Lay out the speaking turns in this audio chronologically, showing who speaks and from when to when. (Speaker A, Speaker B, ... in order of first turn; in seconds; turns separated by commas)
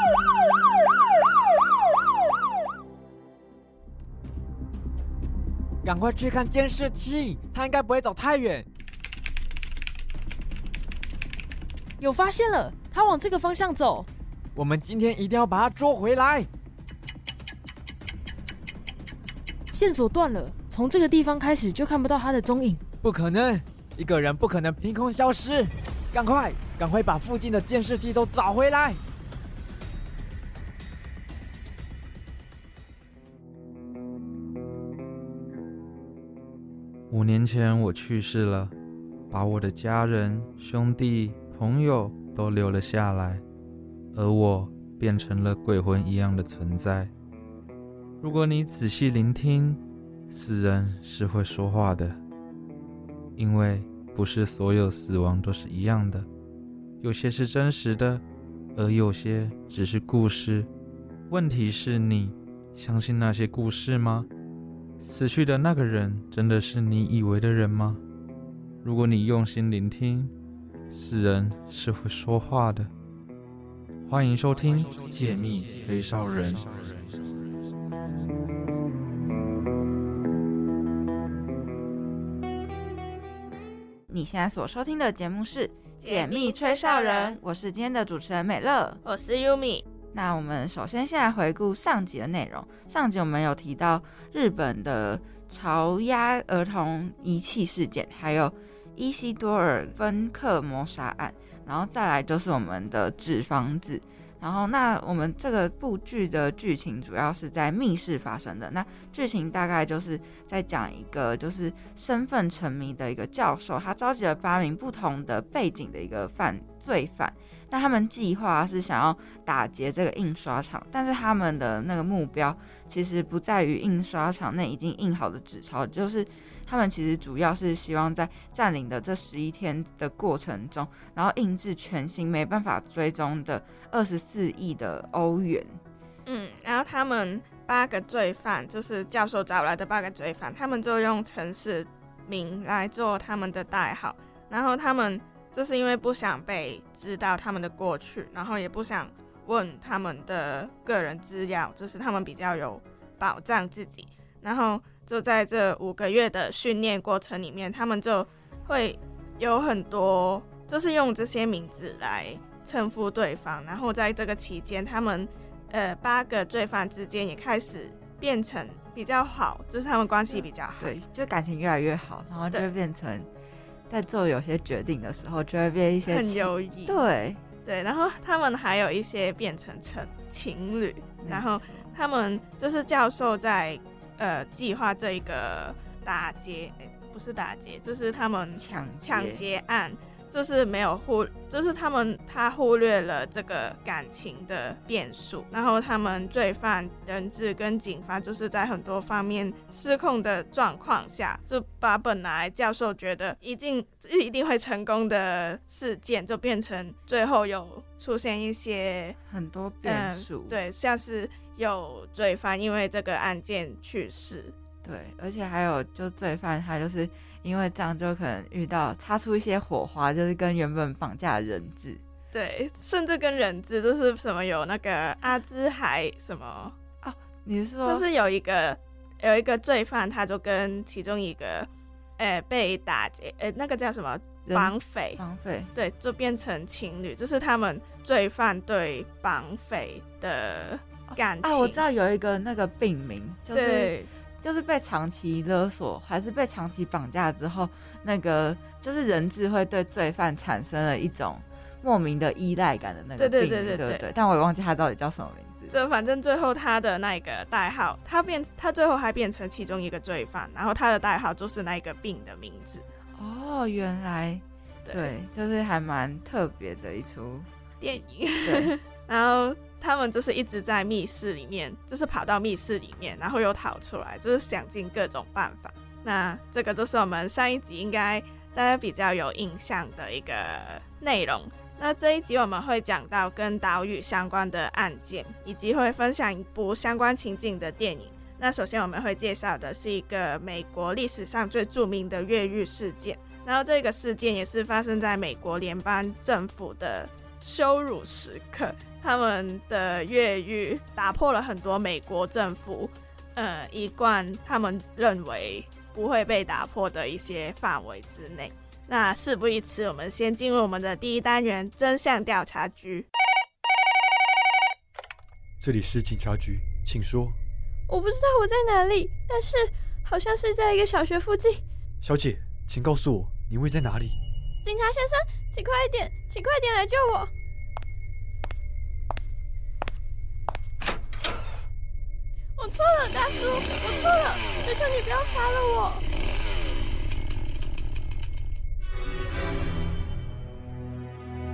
Speaker A: 5.8-8.7, Speaker B: 12.0-14.1, Speaker A: 14.5-16.5, Speaker B: 19.7-22.8, Speaker A: 23.0-29.0, Speaker C: 37.1-38.7, Speaker C: 39.3-43.4, Speaker C: 44.1-47.1, Speaker C: 48.2-52.2, Speaker C: 53.4-56.3, Speaker C: 57.0-58.2, Speaker C: 58.8-60.7, Speaker C: 61.3-64.3, Speaker C: 65.0-68.0, Speaker C: 68.8-70.3, Speaker C: 70.9-72.9, Speaker C: 74.1-77.1, Speaker D: 84.1-89.0, Speaker E: 86.0-87.4, Speaker E: 89.0-89.8, Speaker D: 90.1-135.8, Speaker E: 136.2-170.9, Speaker D: 170.3-173.3, Speaker D: 173.9-177.4, Speaker E: 176.1-177.0, Speaker E: 177.7-209.2, Speaker D: 181.2-181.8, Speaker D: 188.5-189.4, Speaker D: 209.2-210.6, Speaker E: 209.8-214.5, Speaker D: 214.8-222.0, Speaker E: 222.3-226.8, Speaker D: 227.0-228.1, Speaker E: 227.8-235.2, Speaker D: 234.5-235.7, Speaker E: 235.8-241.8, Speaker D: 241.1-255.8, Speaker E: 243.5-244.1, Speaker E: 253.2-254.1, Speaker E: 255.7-262.8, Speaker D: 263.2-267.5, Speaker E: 264.8-265.1, Speaker E: 267.8-313.1, Speaker D: 268.4-268.7, Speaker F: 315.6-317.4, Speaker G: 317.9-321.6, Speaker F: 322.0-324.1, Speaker G: 324.6-327.3, Speaker G: 332.6-336.0